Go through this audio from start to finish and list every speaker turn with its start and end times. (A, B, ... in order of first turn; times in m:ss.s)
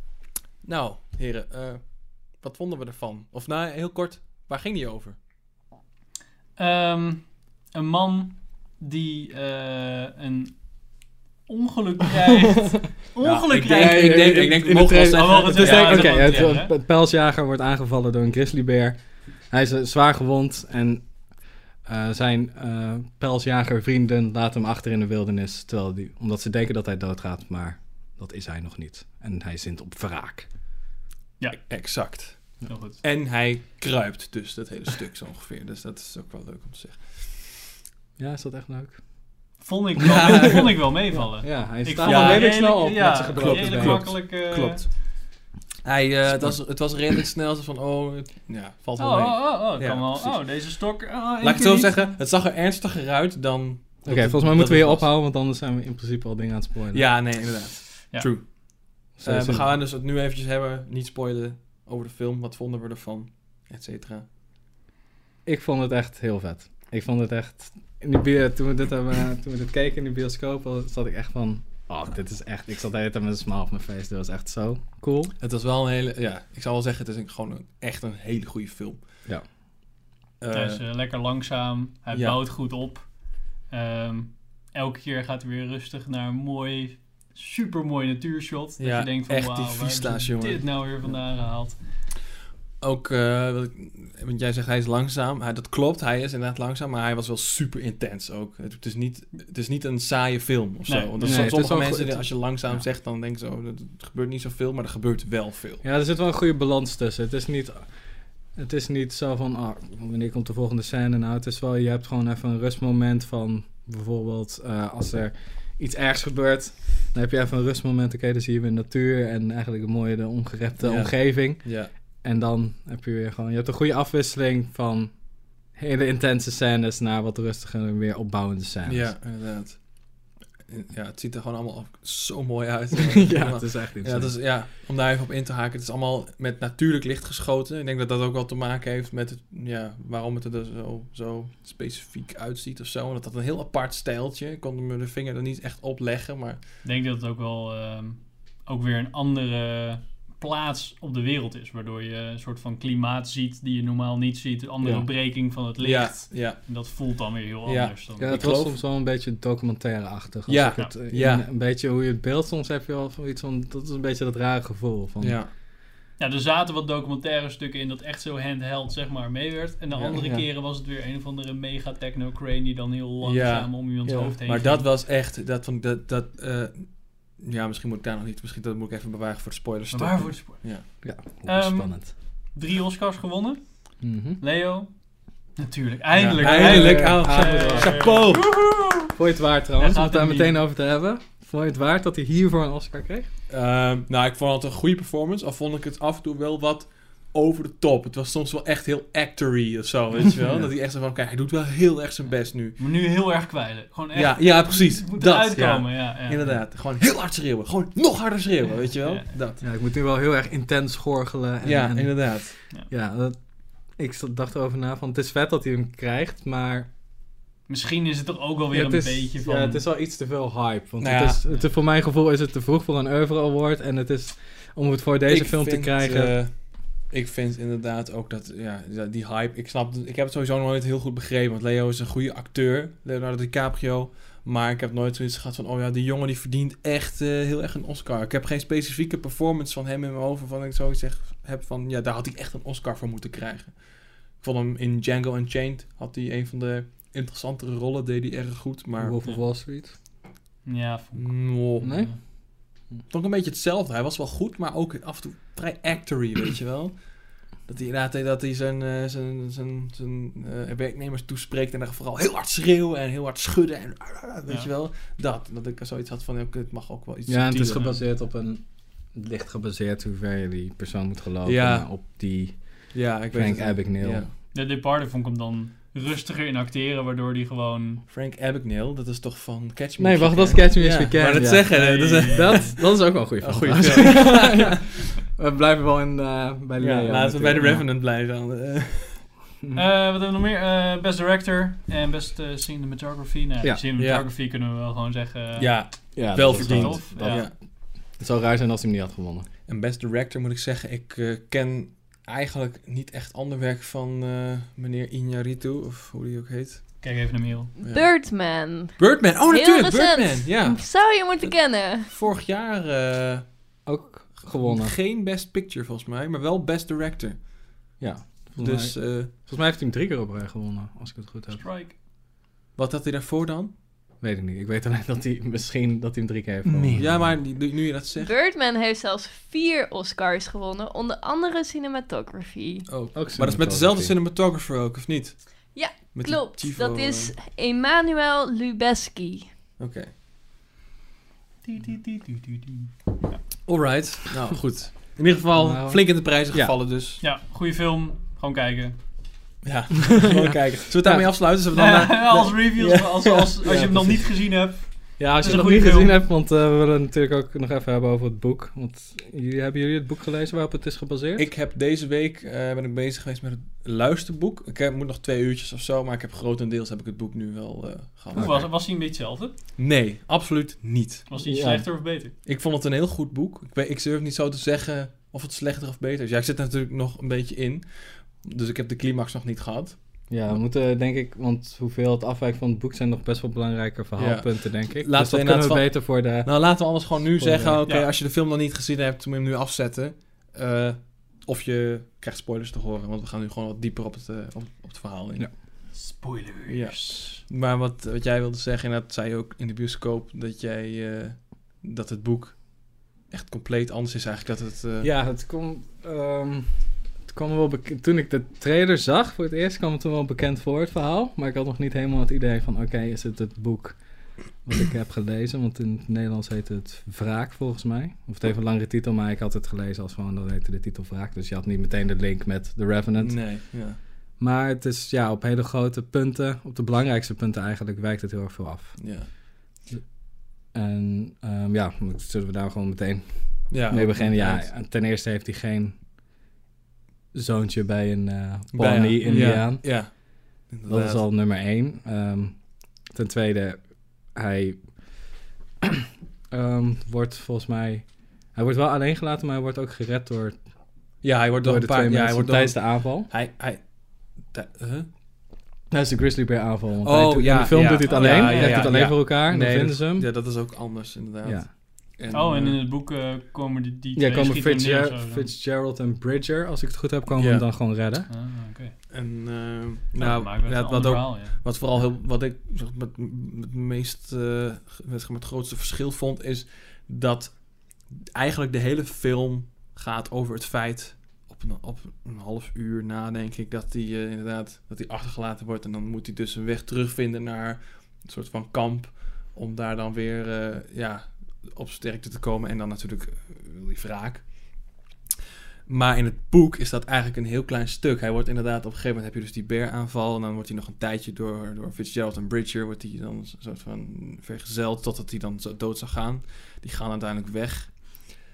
0:00.6-0:05.2 A
0:06.6-0:10.6 B
0:11.5-0:16.7 B
0:13.2-0:16.5 A
0:13.7-0:19.0 C
0:19.5-0:21.0 C
0:21.8-0:30.5 C
0:31.5-0:32.5 A
0:32.7-0:33.0 B
0:33.0-0:37.6 A
0:38.2-0:39.0 C
0:39.6-0:44.9 B
0:40.0-0:44.2 C
0:40.0-0:41.3 A
0:42.0-0:42.8 A
0:43.3-0:45.0 A
0:45.8-0:50.5 A
0:46.3-0:46.6 C
0:49.0-0:52.2 B
0:51.4-0:55.1 A
0:54.0-0:57.1 C
0:56.9-0:58.6 A
0:59.1-1:04.3 A
0:59.2-0:59.7 C
1:05.5-1:15.3 C
1:15.4-1:19.0 A
1:20.4-1:20.8 A
1:20.5-1:23.2 B
1:22.1-1:22.4 A
1:23.7-1:31.8 B
1:28.8-1:30.6 A
1:32.8-1:45.8 A
1:40.9-1:41.6 B
1:41.2-1:42.4 C
1:45.8-1:47.9 C
1:48.6-2:05.2 C
2:00.8-2:01.9 A
2:05.7-2:09.1 C
2:08.9-2:09.8 A
2:10.7-2:26.6 A
2:13.1-2:14.4 C
2:26.8-2:38.5 B
2:35.8-2:36.6 A
2:37.7-2:38.8 A
2:38.2-2:45.4 C
2:40.5-2:41.4 A
2:45.2-2:45.5 A
2:46.2-2:54.9 B
2:49.9-2:50.5 A
2:53.2-2:53.8 A
2:54.0-2:54.4 C
2:54.4-3:00.8 A
2:59.9-3:04.9 B
3:01.0-3:02.1 C
3:04.0-3:04.4 C
3:05.6-3:09.1 B
3:06.1-3:08.5 A
3:06.4-3:08.2 C
3:09.1-3:13.3 C
3:09.8-3:10.6 B
3:13.5-3:22.8 A
3:20.4-3:20.7 C
3:22.8-3:26.6 B
3:24.1-3:29.6 A
3:29.6-3:33.4 C
3:31.6-3:32.6 A
3:34.0-3:36.9 C
3:37.7-3:39.8 B
3:38.7-3:46.4 C
3:41.0-3:41.4 A
3:45.3-4:09.2 A
4:09.0-4:09.9 C
4:10.6-4:12.2 B
4:11.2-4:12.1 A
4:11.8-4:12.1 C
4:13.1-4:17.1 A
4:17.6-4:27.9 A
4:27.3-4:34.2 C
4:31.4-4:31.9 A
4:32.9-4:34.3 A
4:34.5-4:38.0 B
4:38.1-4:42.8 A
4:40.0-4:47.8 C
4:41.7-4:42.7 B
4:43.4-4:44.9 A
4:46.8-4:49.2 A
4:49.7-4:57.5 B
4:54.0-4:54.2 A
4:55.6-4:57.5 A
4:56.2-4:57.6 C
4:58.2-4:59.5 C
4:59.7-5:06.9 A
5:07.0-5:07.8 B
5:07.8-5:12.1 D
5:07.8-5:08.1 A
5:09.0-5:10.8 A
5:12.1-5:13.4 A
5:13.9-5:15.0 C
5:14.5-5:17.4 A
5:18.0-5:21.6 C
5:18.6-5:19.3 A
5:21.5-5:22.0 B
5:22.8-5:23.7 A
5:24.2-5:27.4 C
5:26.8-5:28.3 A
5:28.2-5:32.9 D
5:32.9-5:35.5 A
5:33.1-5:34.2 C
5:35.7-5:39.5 D
5:36.1-5:37.3 A
5:39.8-5:40.1 A
5:41.6-5:43.4 B
5:43.7-5:47.2 A
5:45.6-5:46.7 C
5:47.2-5:49.0 B
5:49.6-5:54.3 A
5:51.7-5:56.2 B
5:55.2-6:01.5 C
6:01.4-6:08.8 A
6:08.3-6:09.5 B
6:09.8-6:11.3 A
6:11.3-6:12.3 B
6:11.4-6:11.9 C
6:12.4-6:20.0 A
6:20.3-6:26.6 C
6:24.2-6:35.5 A
6:27.4-6:27.8 C
6:27.8-6:28.1 B
6:35.9-6:37.4 B
6:36.7-6:45.1 A
6:45.0-6:46.7 C
6:47.3-6:54.0 C
6:54.6-7:03.5 C
7:03.2-7:04.0 A
7:04.4-7:09.0 C
7:09.0-7:09.3 A
7:10.7-7:16.0 C
7:13.7-7:14.7 A
7:17.3-7:20.2 C
7:18.7-7:21.3 A
7:20.9-7:25.2 C
7:25.8-7:30.6 C
7:31.2-7:33.8 A
7:31.6-7:33.3 C
7:34.4-7:35.1 A
7:35.9-7:40.3 C
7:37.0-7:42.8 A
7:38.0-7:39.0 B
7:41.4-7:41.7 C
7:42.3-7:45.5 B
7:44.2-7:48.3 C
7:47.4-7:47.6 A
7:48.3-7:49.0 B
7:49.1-8:14.5 A
7:50.2-7:51.6 B
8:15.9-8:28.3 A